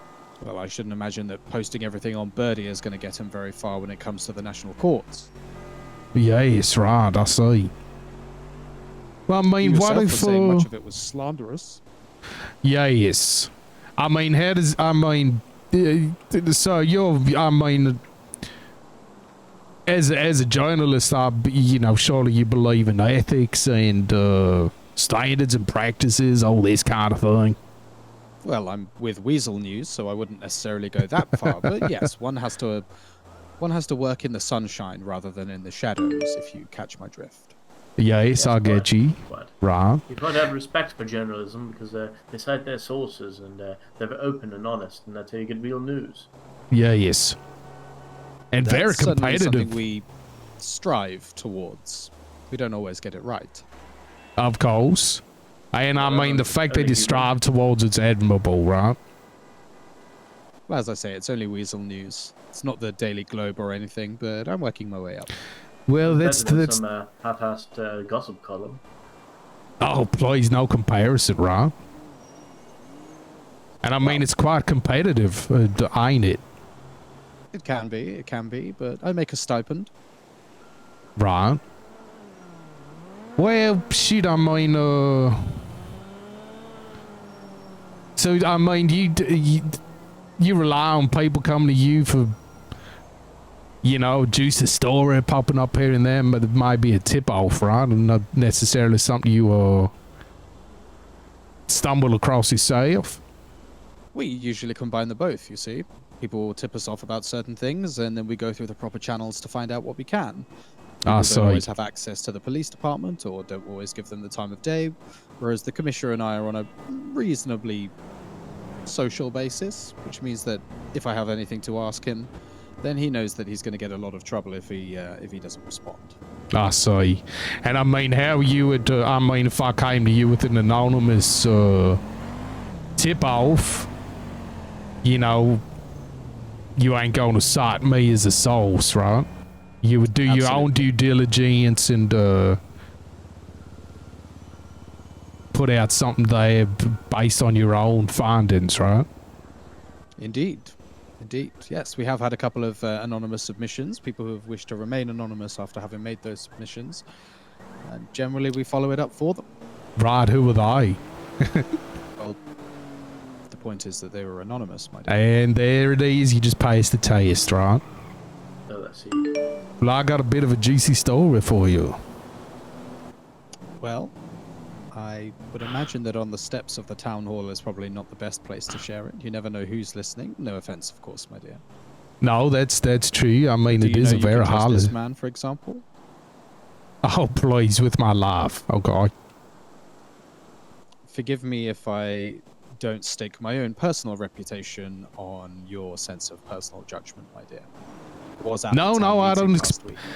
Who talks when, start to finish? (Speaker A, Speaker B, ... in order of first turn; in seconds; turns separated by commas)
Speaker A: 0.4-5.3, Speaker B: 6.2-7.7, Speaker B: 9.3-10.7, Speaker A: 9.6-11.8, Speaker B: 12.6-18.0, Speaker B: 19.9-27.6, Speaker A: 28.4-32.9, Speaker A: 33.6-37.5, Speaker B: 38.0-40.0, Speaker C: 38.4-39.5, Speaker C: 40.1-46.3, Speaker B: 46.7-47.4, Speaker B: 48.5-49.7, Speaker A: 48.6-50.1, Speaker A: 50.6-53.6, Speaker B: 54.4-59.0, Speaker C: 56.0-57.3, Speaker A: 60.7-65.3, Speaker B: 65.9-66.8, Speaker C: 66.0-68.8, Speaker B: 69.8-71.7, Speaker B: 73.8-76.4, Speaker A: 74.0-74.3, Speaker A: 77.5-79.9, Speaker B: 81.2-81.6, Speaker B: 83.4-85.5, Speaker B: 88.2-89.8, Speaker B: 90.4-92.3, Speaker B: 93.8-99.9, Speaker B: 101.7-103.2, Speaker A: 104.1-110.5, Speaker B: 111.0-111.7, Speaker A: 111.0-117.9, Speaker A: 118.9-122.3, Speaker A: 122.8-126.2, Speaker B: 126.5-132.0, Speaker B: 133.0-133.9, Speaker B: 135.0-135.6, Speaker B: 136.8-139.3, Speaker B: 139.8-142.6, Speaker A: 140.2-140.9, Speaker B: 145.5-149.1, Speaker A: 150.2-157.0, Speaker A: 157.8-159.5, Speaker B: 160.0-161.7, Speaker A: 163.5-165.2, Speaker B: 165.1-167.8, Speaker C: 168.7-169.3, Speaker B: 169.8-172.0, Speaker A: 173.8-174.1, Speaker A: 174.9-181.6, Speaker B: 182.2-184.9, Speaker A: 183.7-185.8, Speaker B: 187.0-189.1, Speaker A: 191.1-197.7, Speaker A: 198.4-200.0, Speaker B: 198.7-199.8